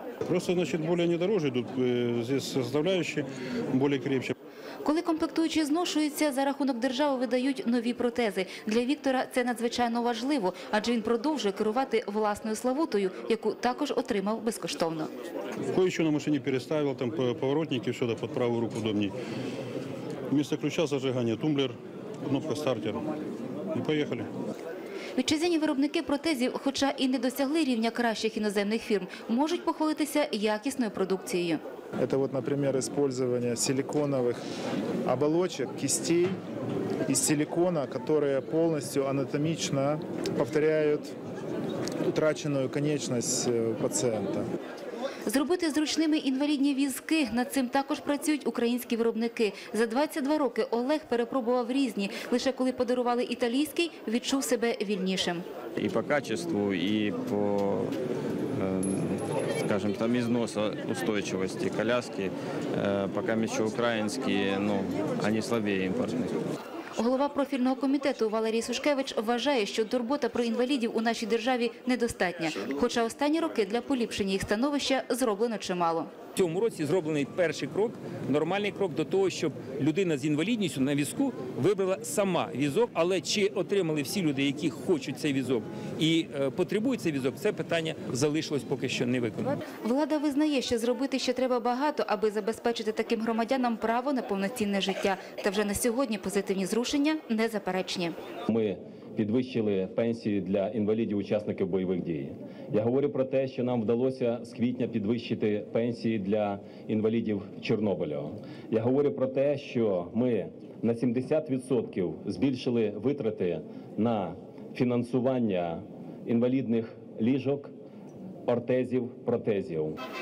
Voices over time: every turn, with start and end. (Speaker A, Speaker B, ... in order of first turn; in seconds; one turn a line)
Speaker A: 0.3-4.3
Speaker B: 4.8-15.1
Speaker A: 15.7-19.1
Speaker A: 20.3-23.0
Speaker A: 23.7-24.3
Speaker B: 25.2-31.6
Speaker C: 32.0-34.4
Speaker C: 35.1-36.4
Speaker C: 37.1-41.1
Speaker C: 42.0-44.5
Speaker B: 45.3-55.4
Speaker D: 55.8-57.9
Speaker D: 58.6-66.3
Speaker B: 67.0-76.1
Speaker E: 76.4-89.6
Speaker B: 89.8-98.1
Speaker F: 98.5-117.7
Speaker F: 118.5-120.0